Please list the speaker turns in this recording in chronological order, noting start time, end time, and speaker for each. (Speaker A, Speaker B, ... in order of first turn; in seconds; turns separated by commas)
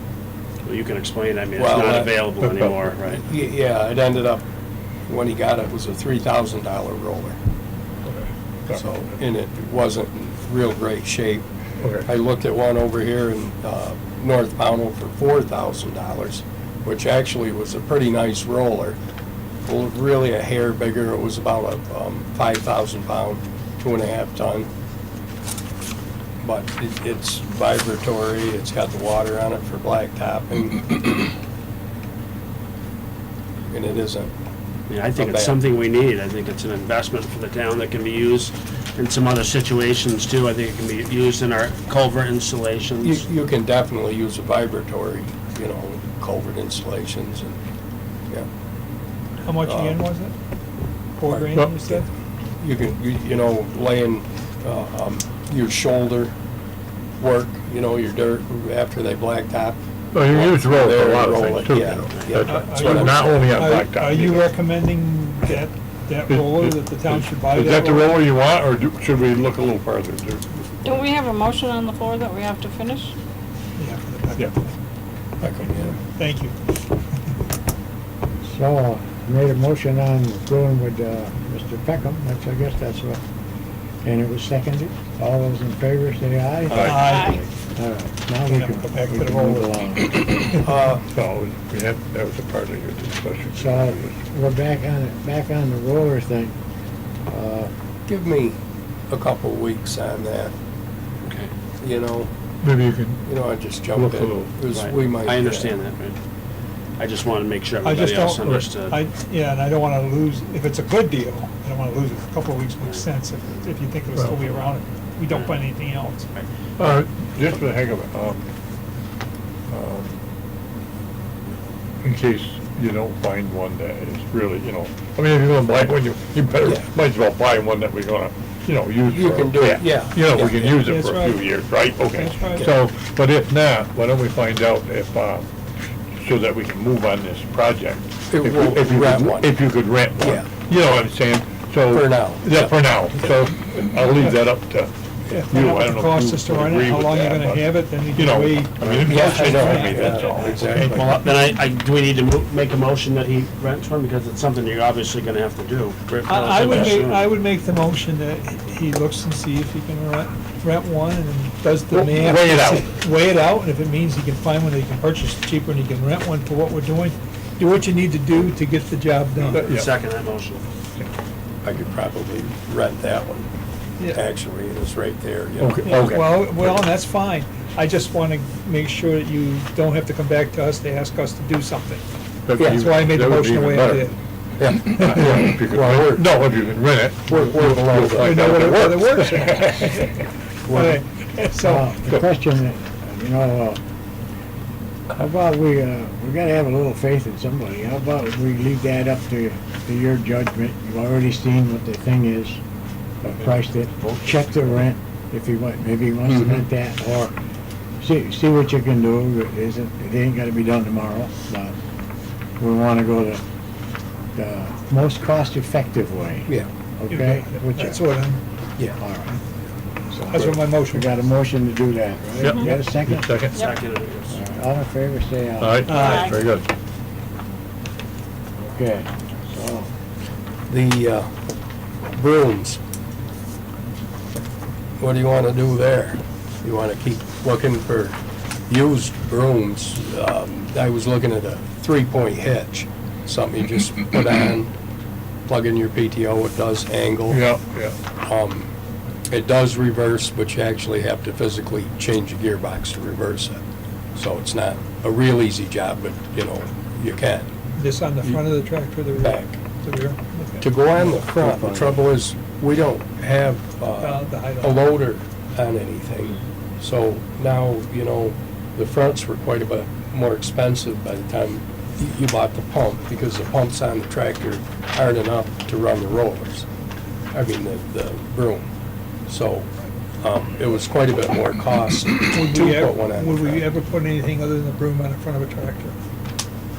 Speaker A: 0.6-3.2, Speaker B: 1.6-2.2, Speaker C: 2.4-2.8, Speaker B: 3.2-4.4, Speaker B: 5.1-7.4, Speaker C: 8.0-9.1, Speaker B: 8.7-11.4, Speaker C: 11.8-12.1, Speaker B: 12.0-19.0, Speaker B: 19.6-24.7, Speaker B: 26.4-31.1, Speaker B: 33.7-34.3, Speaker A: 34.9-43.3, Speaker B: 35.1-35.6, Speaker B: 43.0-47.6, Speaker D: 49.4-50.3, Speaker B: 49.6-50.0, Speaker D: 51.2-52.1, Speaker C: 51.4-51.8, Speaker B: 52.6-56.3, Speaker B: 57.2-63.7, Speaker C: 60.1-64.5, Speaker D: 62.5-68.1, Speaker C: 66.3-71.1, Speaker E: 70.8-73.1, Speaker D: 73.8-74.7, Speaker B: 75.4-76.0, Speaker D: 75.8-76.5, Speaker F: 78.4-83.2, Speaker F: 84.0-90.6, Speaker B: 86.7-87.4, Speaker C: 86.7-87.1, Speaker D: 86.8-87.4, Speaker D: 88.5-90.6, Speaker B: 90.6-91.0, Speaker C: 91.1-94.2, Speaker F: 93.5-96.5, Speaker F: 97.3-97.7, Speaker B: 98.0-98.6, Speaker B: 99.1-100.5, Speaker A: 101.2-101.5, Speaker B: 101.8-102.3, Speaker C: 102.6-103.2, Speaker B: 103.2-105.8, Speaker C: 103.9-104.5, Speaker A: 104.7-106.2, Speaker A: 107.0-109.0, Speaker D: 107.8-116.3, Speaker C: 114.2-114.5, Speaker A: 115.3-115.6, Speaker C: 116.8-118.5, Speaker C: 119.7-120.2, Speaker C: 122.0-135.4, Speaker B: 129.0-130.9, Speaker D: 130.8-131.4, Speaker D: 132.1-132.7, Speaker C: 136.2-151.2, Speaker B: 138.3-139.6, Speaker B: 140.2-140.5, Speaker B: 141.9-142.7, Speaker D: 145.3-150.5, Speaker B: 148.9-150.9, Speaker A: 150.5-157.2, Speaker D: 156.3-169.6, Speaker C: 161.9-162.9, Speaker A: 169.4-170.6, Speaker C: 169.6-169.9, Speaker B: 171.6-173.5, Speaker D: 174.0-174.2, Speaker B: 174.1-176.7, Speaker C: 175.6-176.7, Speaker D: 176.0-182.1, Speaker C: 182.4-184.1, Speaker B: 182.6-182.9, Speaker D: 182.6-184.2, Speaker B: 184.6-186.3, Speaker C: 184.6-190.2, Speaker B: 187.3-189.2, Speaker D: 188.2-189.9, Speaker B: 190.7-191.0, Speaker D: 190.7-191.9, Speaker F: 191.6-193.8, Speaker F: 195.1-202.6, Speaker F: 203.2-207.3, Speaker A: 204.0-204.6, Speaker F: 208.0-211.7, Speaker F: 212.6-213.4, Speaker F: 214.3-218.0, Speaker D: 217.1-218.4, Speaker F: 219.0-219.4, Speaker F: 220.1-223.4, Speaker D: 220.3-221.1, Speaker C: 222.4-223.6, Speaker A: 223.5-224.4, Speaker F: 224.3-226.1, Speaker C: 225.6-226.7, Speaker D: 225.8-226.3, Speaker F: 228.6-229.9, Speaker B: 230.7-231.3, Speaker B: 232.1-232.8, Speaker B: 235.0-238.2, Speaker B: 238.7-244.7, Speaker B: 245.5-247.4, Speaker C: 247.3-248.0, Speaker B: 248.2-248.7, Speaker B: 249.3-253.6, Speaker B: 254.2-257.5, Speaker D: 257.8-260.7, Speaker B: 259.1-259.6, Speaker B: 260.6-276.7, Speaker C: 261.6-261.9, Speaker D: 264.0-264.9, Speaker B: 277.3-278.7, Speaker B: 279.3-283.6, Speaker D: 282.3-286.0